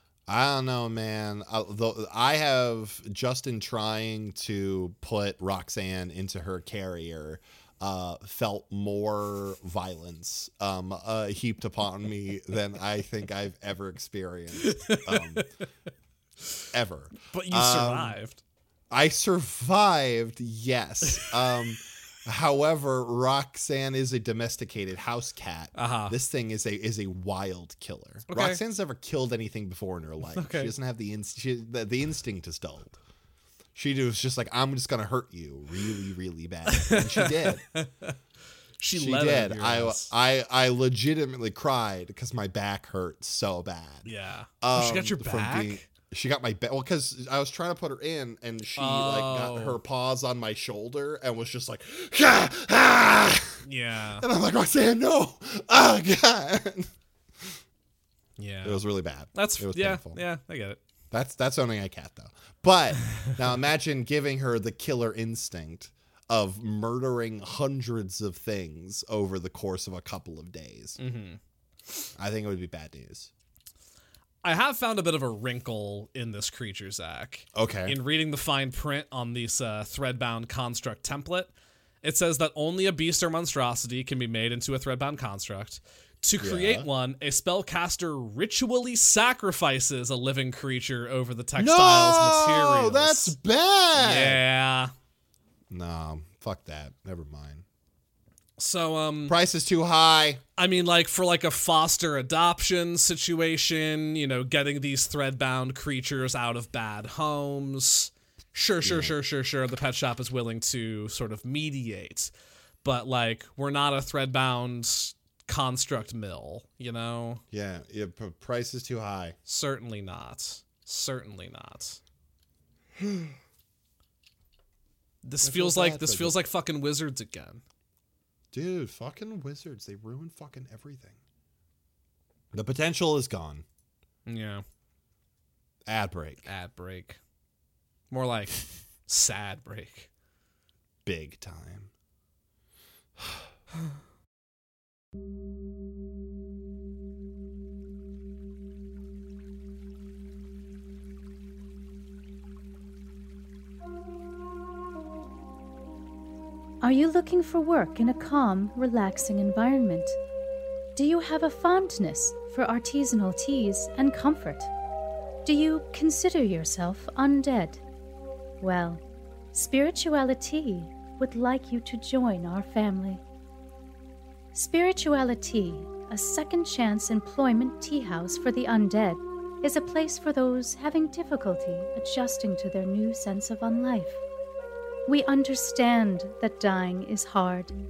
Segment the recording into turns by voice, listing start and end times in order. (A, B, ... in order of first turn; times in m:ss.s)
0:00.3-0:15.5 A
0:14.6-0:15.5 B
0:16.7-0:18.2 A
0:17.3-0:18.4 B
0:18.9-0:33.0 A
0:25.7-0:26.2 B
0:28.3-0:28.6 B
0:30.3-0:30.7 B
0:33.7-0:37.6 A
0:36.7-0:38.2 B
0:38.8-0:40.1 B
0:38.9-0:44.0 A
0:44.0-0:45.9 B
0:44.6-0:53.6 A
0:48.8-0:49.8 B
0:53.6-0:54.2 B
0:54.2-0:57.6 A
0:58.4-0:58.8 B
0:58.6-1:00.2 A
0:59.3-1:00.8 B
1:01.1-1:11.0 A
1:11.0-1:11.4 B
1:12.2-1:13.3 A
1:14.4-1:21.5 B
1:17.5-1:18.0 A
1:22.0-1:33.3 B
1:26.4-1:26.9 A
1:31.6-1:34.4 A
1:33.9-1:34.9 B
1:35.7-1:37.6 A
1:38.6-1:39.4 B
1:39.3-1:40.4 A
1:40.6-1:52.3 B
1:48.8-1:49.2 A
1:52.8-1:57.4 B
1:57.5-1:59.4 A
1:59.5-2:02.0 B
2:05.2-2:07.6 B
2:05.4-2:06.4 A
2:08.5-2:11.2 A
2:12.5-2:13.6 A
2:14.2-2:14.6 B
2:15.8-2:16.5 A
2:16.4-2:17.2 B
2:18.1-2:20.1 B
2:21.0-2:21.9 A
2:23.2-2:23.5 A
2:36.8-2:40.2 C
2:41.0-2:44.7 C
2:45.4-2:47.8 C
2:48.6-2:53.2 C
2:54.5-3:04.2 C
3:05.0-3:07.7 C